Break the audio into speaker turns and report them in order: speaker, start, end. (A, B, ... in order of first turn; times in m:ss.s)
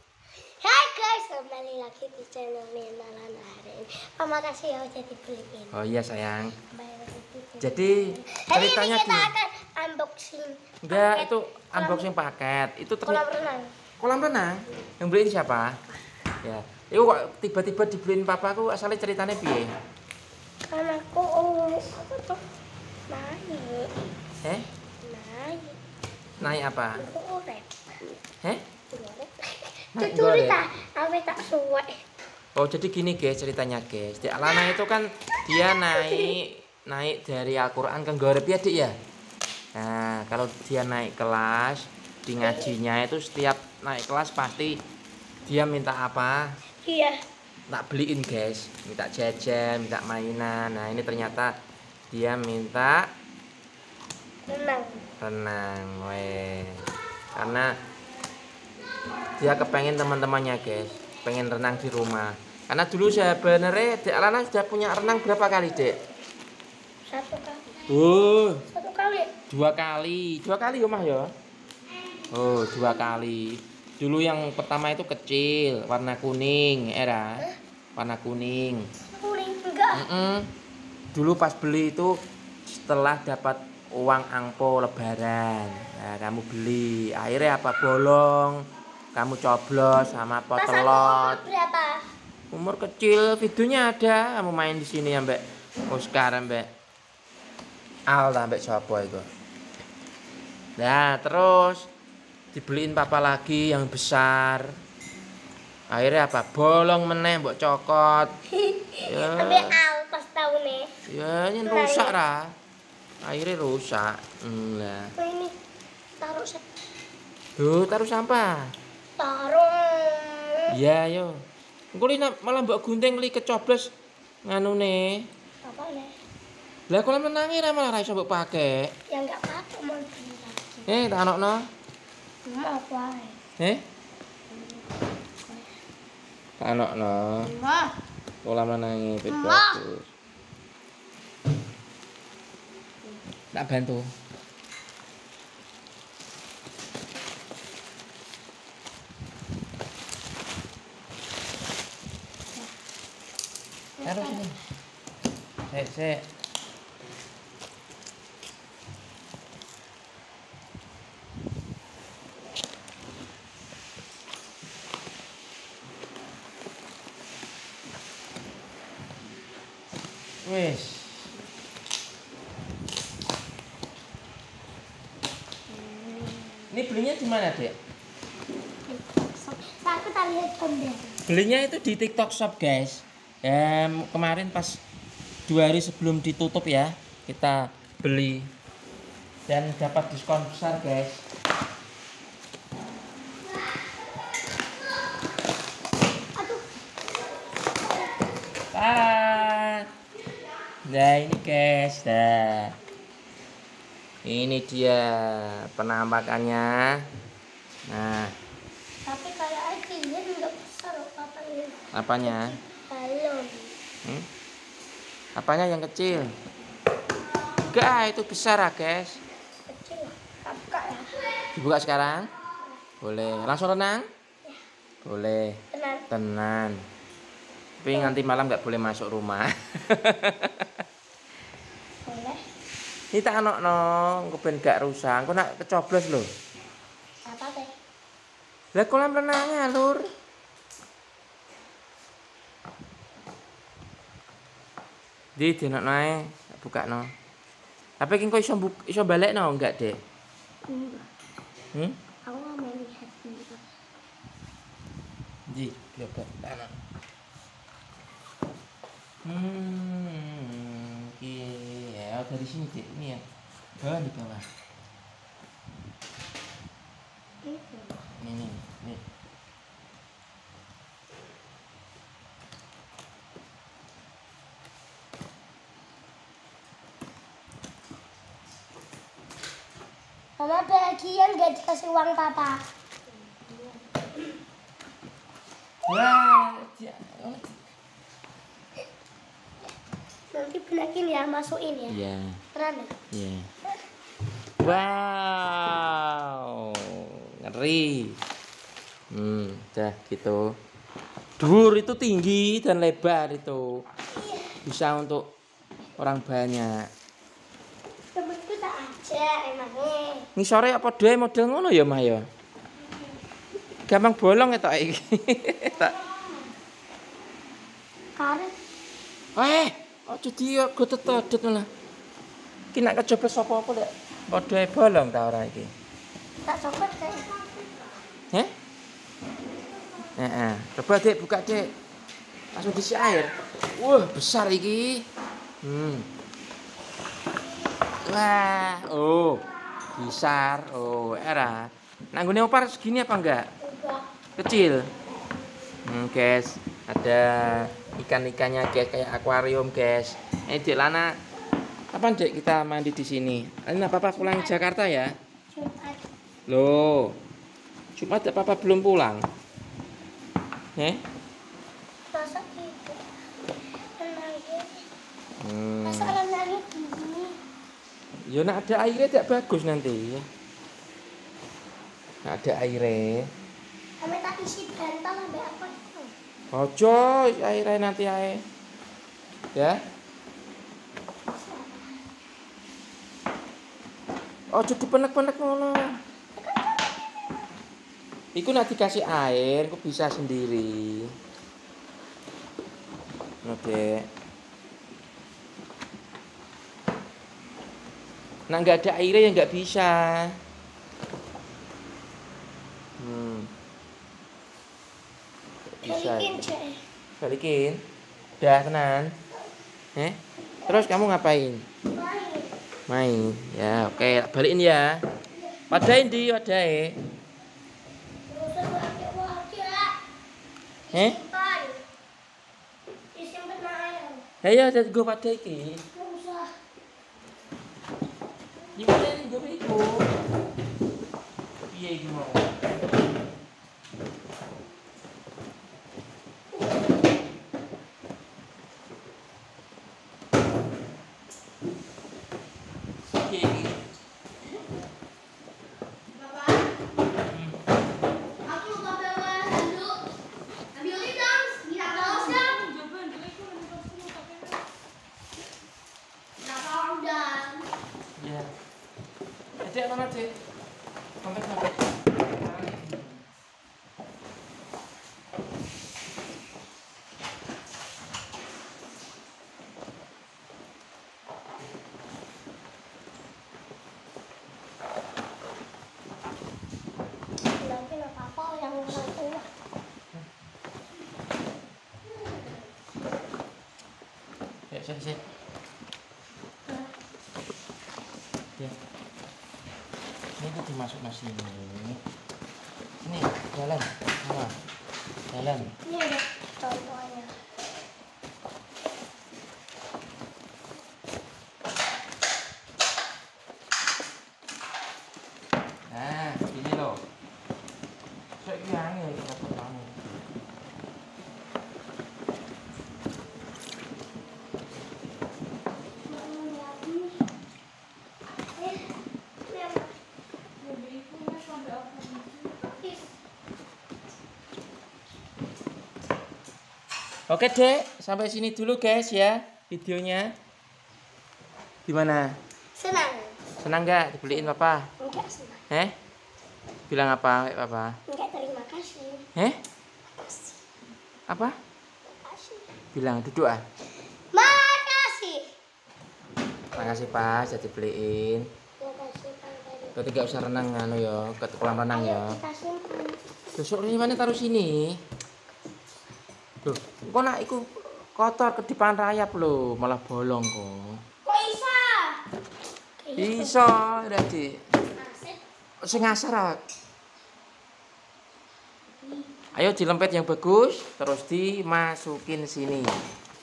0:00.6-0:05.8 A
0:05.7-0:06.6 B
0:06.6-0:12.1 A
0:07.6-0:09.3 B
0:10.9-0:13.2 B
0:13.1-0:13.7 A
0:14.0-0:15.8 B
0:16.4-0:19.7 B
0:20.7-0:22.4 A
0:23.1-0:23.9 A
0:25.0-0:25.8 A
0:26.4-0:27.0 B
0:27.0-0:27.7 A
0:28.9-0:32.0 A
0:30.0-0:30.6 B
0:32.6-0:39.0 B
0:35.6-0:36.4 A
0:39.8-0:44.8 B
0:42.4-0:42.7 A
0:45.4-0:46.5 B
0:46.8-0:47.2 A
0:47.7-0:51.6 B
0:52.1-0:53.1 B
0:54.5-0:55.1 A
0:55.2-0:57.8 B
0:59.4-1:06.0 B
1:07.1-1:07.9 A
1:07.9-1:08.7 B
1:08.7-1:09.3 A
1:09.5-1:11.3 B
1:12.1-1:13.2 A
1:12.3-1:17.4 B
1:18.0-1:18.9 B
1:19.1-1:20.1 A
1:19.9-1:20.5 B
1:21.1-1:28.6 B
1:29.2-1:31.4 B
1:30.6-1:32.0 A
1:32.5-1:36.7 B
1:38.1-1:39.3 B
1:40.8-1:41.9 B
1:42.5-1:44.7 B
1:45.9-1:48.3 B
1:48.5-1:50.9 A
1:49.0-1:49.8 B
1:51.1-1:52.5 B
1:51.7-1:52.2 A
1:53.2-1:55.1 B
1:55.2-1:55.5 A
1:56.2-1:56.6 A
1:57.6-1:58.7 B
1:59.2-2:00.7 A
2:00.7-2:01.4 B
2:01.9-2:03.9 B
2:04.5-2:05.3 B
2:05.6-2:06.1 A
2:06.9-2:08.9 B
2:09.1-2:10.9 A
2:10.9-2:11.7 B
2:12.5-2:13.4 A
2:14.5-2:14.9 A
2:15.4-2:15.7 A
2:16.6-2:17.5 B
2:17.5-2:17.9 A
2:18.4-2:20.1 B
2:19.3-2:19.8 A
2:23.5-2:24.1 B
2:34.0-2:34.5 A
2:34.0-2:34.6 B
2:35.7-2:36.3 B
2:50.4-2:51.3 B
2:55.8-2:56.6 A
2:56.7-2:57.8 B
2:58.9-3:01.2 A
3:01.3-3:04.8 B
3:05.5-3:08.5 B
3:09.5-3:11.2 B
3:16.4-3:16.7 A
3:17.6-3:18.3 A
3:18.7-3:19.9 B
3:20.9-3:22.8 B
3:24.2-3:27.0 B
3:27.9-3:28.3 B
3:29.0-3:33.7 A
3:31.9-3:32.6 B
3:35.4-3:36.3 B
3:37.6-3:39.2 B
3:39.7-3:41.3 A
3:41.5-3:42.3 B
3:43.0-3:44.1 B
3:45.0-3:46.8 B
3:45.7-3:46.0 A
3:47.8-3:50.7 B
3:52.1-3:52.4 A
3:53.1-3:56.3 B
3:57.3-3:57.7 A
3:58.8-4:00.1 B
4:05.4-4:07.1 B
4:08.0-4:10.0 B
4:10.7-4:11.1 A
4:12.3-4:13.7 A
4:15.5-4:16.7 B
4:19.2-4:23.2 B
4:23.8-4:24.4 B
4:27.4-4:28.0 A
4:28.2-4:29.0 B
4:40.4-4:42.7 A
4:45.9-4:47.5 B
4:50.3-4:52.0 A
4:51.9-4:52.4 B
4:52.6-4:52.9 A
4:53.1-4:53.5 B
4:54.6-4:58.2 B
4:59.1-5:00.6 B
5:01.4-5:03.8 B
5:04.1-5:04.6 A
5:04.6-5:05.3 B
5:06.0-5:06.9 B
5:08.1-5:10.3 A
5:10.4-5:12.3 B
5:13.9-5:16.0 B
5:18.2-5:18.5 A
5:19.4-5:21.7 B
5:22.7-5:25.7 B
5:26.4-5:27.4 A
5:30.2-5:31.7 B
5:32.5-5:35.1 B
5:35.6-5:36.1 B
5:38.0-5:39.4 B
5:40.0-5:43.5 B
5:43.6-5:44.1 A
5:44.4-5:44.9 B
5:45.9-5:51.1 B
5:51.9-5:55.1 B
5:54.1-5:54.6 A
5:55.5-5:56.0 A
5:56.5-5:57.2 B
5:58.0-5:59.3 B
6:00.8-6:01.0 B
6:02.1-6:03.1 A
6:04.0-6:04.8 A
6:05.4-6:06.2 B
6:05.8-6:07.4 A
6:08.3-6:10.3 B
6:12.2-6:13.3 B
6:14.0-6:16.1 A
6:16.5-6:18.4 B
6:21.3-6:22.0 A
6:24.5-6:25.9 B
6:26.4-6:27.5 A
6:28.4-6:31.1 B
6:33.4-6:34.0 B
6:38.5-6:40.3 B
6:43.0-6:43.5 B
6:45.8-6:46.4 B
6:45.8-6:46.8 A
6:47.2-6:47.8 B
6:48.4-6:49.1 B
6:50.0-6:51.6 B
6:51.9-6:52.6 A
6:52.9-6:55.0 B
6:53.8-6:54.1 A
6:55.3-6:55.8 A
6:55.7-6:57.0 B
6:58.3-7:00.0 A
7:00.9-7:01.8 A
7:00.9-7:01.2 B
7:03.1-7:04.3 A
7:04.4-7:05.8 B
7:05.9-7:06.5 A
7:08.8-7:10.2 B
7:11.7-7:12.6 B
7:23.1-7:23.8 B
7:27.2-7:27.6 B
7:28.5-7:30.0 A
7:30.8-7:34.6 A
7:36.7-7:37.6 A
7:38.2-7:38.5 B
7:39.6-7:40.4 B
7:41.2-7:43.2 B
7:57.6-7:59.5 A
8:04.7-8:05.2 B
8:10.4-8:12.0 B
8:13.0-8:14.6 B
8:15.3-8:15.8 B
8:15.8-8:17.4 A
8:25.9-8:27.0 B
8:28.4-8:30.0 B
8:36.0-8:37.2 A
8:38.5-8:39.9 A
8:42.1-8:43.1 A
8:47.3-8:50.3 B
8:51.9-8:52.4 B
8:52.8-8:53.4 A
8:53.6-8:54.9 B
8:55.0-8:55.6 A
8:56.9-8:58.0 B
8:58.1-8:59.3 A
9:00.1-9:00.6 A
9:01.3-9:01.6 B
9:02.1-9:02.7 A
9:02.9-9:03.6 B
9:04.3-9:05.5 A
9:06.8-9:08.4 B
9:06.8-9:07.3 A
9:08.8-9:10.0 A
9:10.0-9:12.4 B
9:11.9-9:13.2 A
9:13.6-9:15.0 B
9:16.6-9:21.0 B
9:21.2-9:22.3 A
9:23.0-9:23.6 A
9:23.2-9:24.6 B
9:24.9-9:25.4 A
9:25.8-9:26.6 B
9:29.6-9:32.9 B